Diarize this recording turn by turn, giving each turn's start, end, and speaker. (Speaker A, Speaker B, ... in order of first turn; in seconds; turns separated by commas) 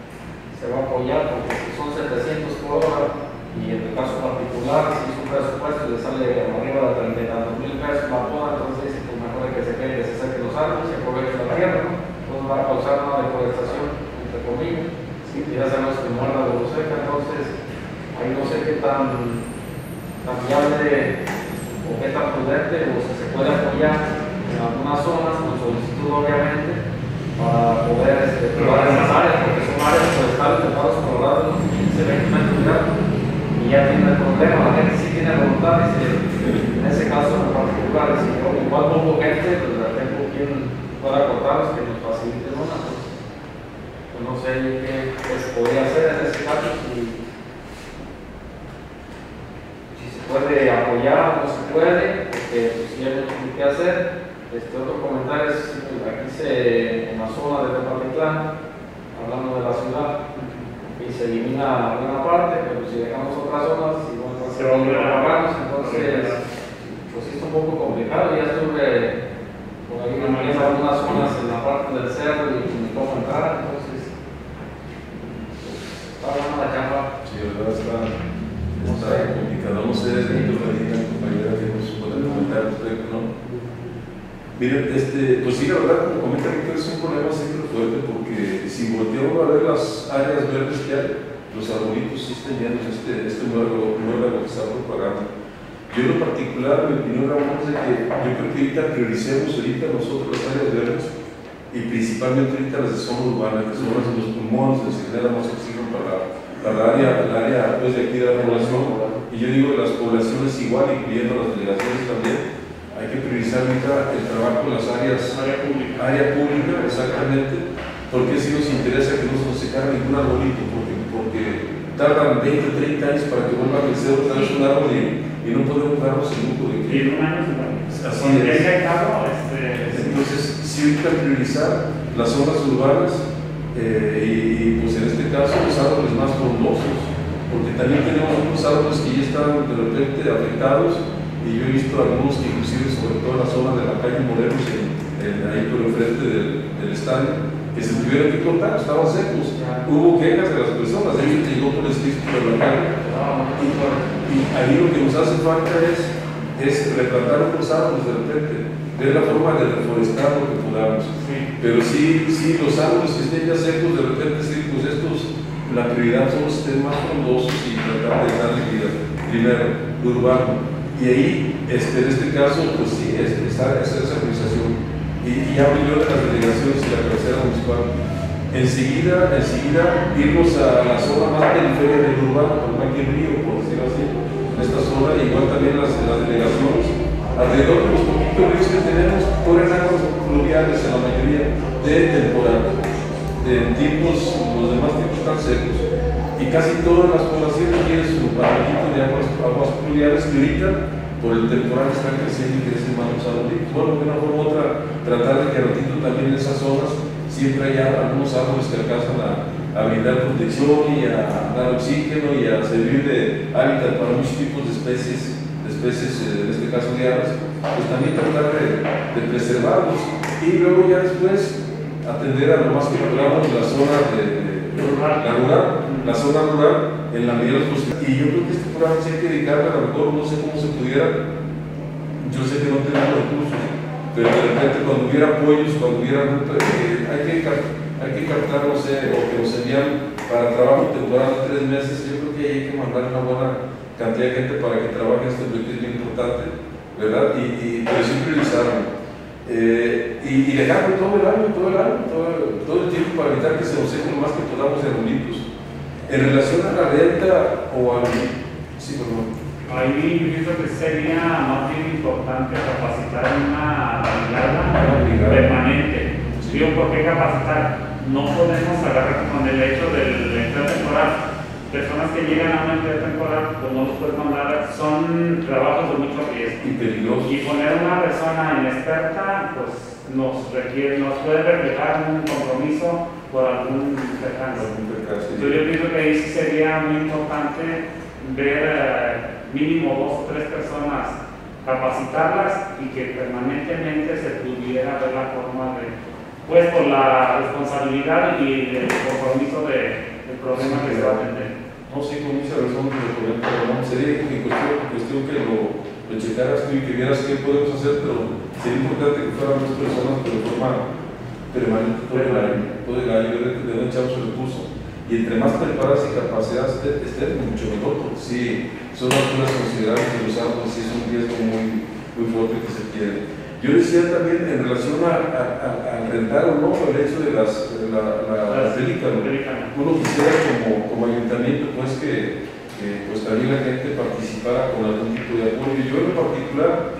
Speaker A: 0.5-17.5, Speaker A: 18.1-19.5, Speaker A: 20.2-21.2, Speaker A: 21.8-26.8, Speaker A: 27.4-32.9, Speaker B: 28.6-29.1, Speaker A: 33.5-43.1, Speaker A: 44.1-47.2, Speaker A: 49.9-58.5, Speaker A: 59.1-60.2, Speaker B: 60.3-60.6, Speaker A: 61.0-69.2, Speaker B: 64.5-66.4, Speaker A: 69.9-74.1, Speaker B: 70.2-70.9, Speaker A: 75.5-77.1, Speaker C: 77.2-78.1, Speaker C: 78.8-83.3, Speaker A: 78.8-79.3, Speaker A: 80.2-80.6, Speaker C: 84.6-95.3, Speaker C: 95.9-101.1, Speaker C: 101.7-112.4, Speaker A: 108.3-109.2, Speaker C: 112.9-115.4, Speaker B: 115.3-116.0, Speaker C: 116.0-127.1, Speaker B: 126.9-130.2, Speaker C: 127.9-128.7, Speaker C: 129.8-153.0, Speaker A: 149.5-149.9, Speaker A: 153.0-154.2, Speaker C: 153.6-177.9, Speaker B: 161.2-161.5, Speaker C: 178.5-192.7, Speaker C: 193.4-195.8, Speaker C: 196.4-231.2, Speaker B: 223.0-223.4, Speaker B: 224.8-226.2, Speaker C: 232.2-248.9, Speaker C: 249.4-255.4, Speaker C: 256.1-259.3, Speaker B: 259.7-271.2, Speaker C: 264.7-265.5, Speaker C: 266.4-266.7, Speaker B: 271.7-276.7, Speaker C: 276.6-277.4, Speaker B: 277.2-284.7, Speaker C: 284.6-285.6, Speaker B: 285.3-295.9, Speaker B: 296.5-301.5, Speaker C: 300.5-301.2, Speaker C: 301.9-310.8, Speaker C: 311.5-336.8, Speaker B: 312.1-312.6, Speaker B: 328.5-329.7